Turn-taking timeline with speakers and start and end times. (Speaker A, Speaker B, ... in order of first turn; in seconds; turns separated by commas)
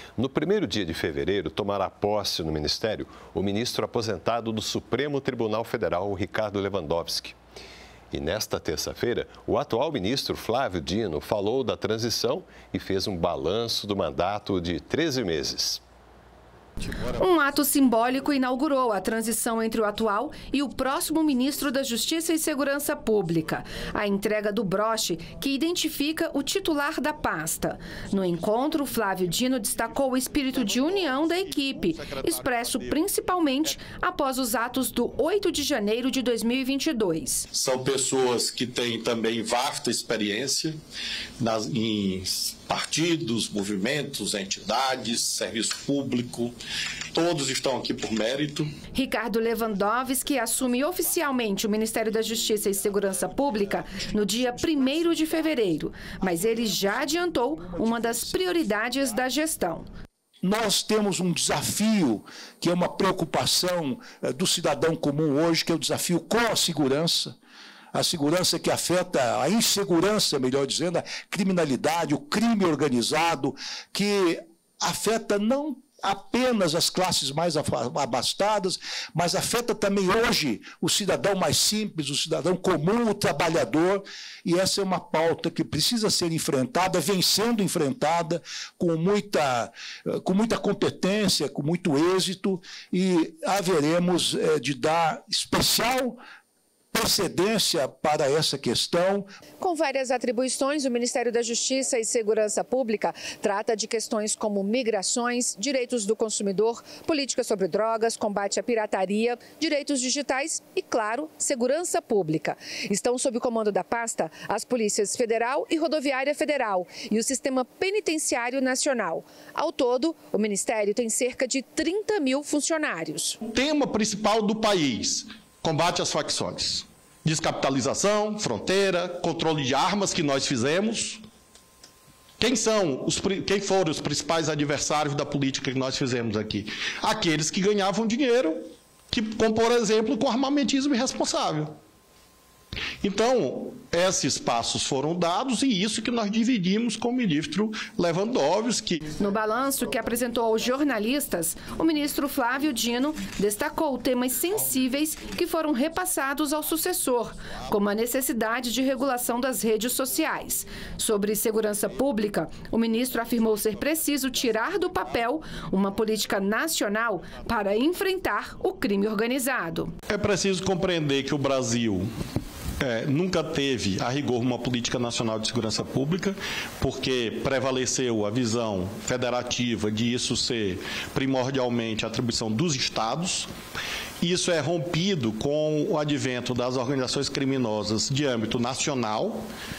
Speaker A: 0.2-7.4, Speaker A: 8.1-15.8, Speaker B: 17.1-37.5, Speaker C: 29.4-33.7, Speaker C: 37.5-40.8, Speaker C: 41.4-46.5, Speaker C: 47.1-48.7, Speaker B: 48.9-59.9, Speaker D: 60.4-67.3, Speaker D: 67.9-96.2, Speaker D: 96.9-99.3, Speaker B: 99.6-123.4, Speaker C: 123.5-131.2, Speaker C: 132.4-141.8, Speaker C: 143.0-149.2, Speaker B: 149.2-169.9, Speaker C: 157.4-157.7, Speaker C: 163.2-165.3, Speaker C: 170.1-172.1, Speaker C: 172.8-183.5, Speaker C: 184.2-189.4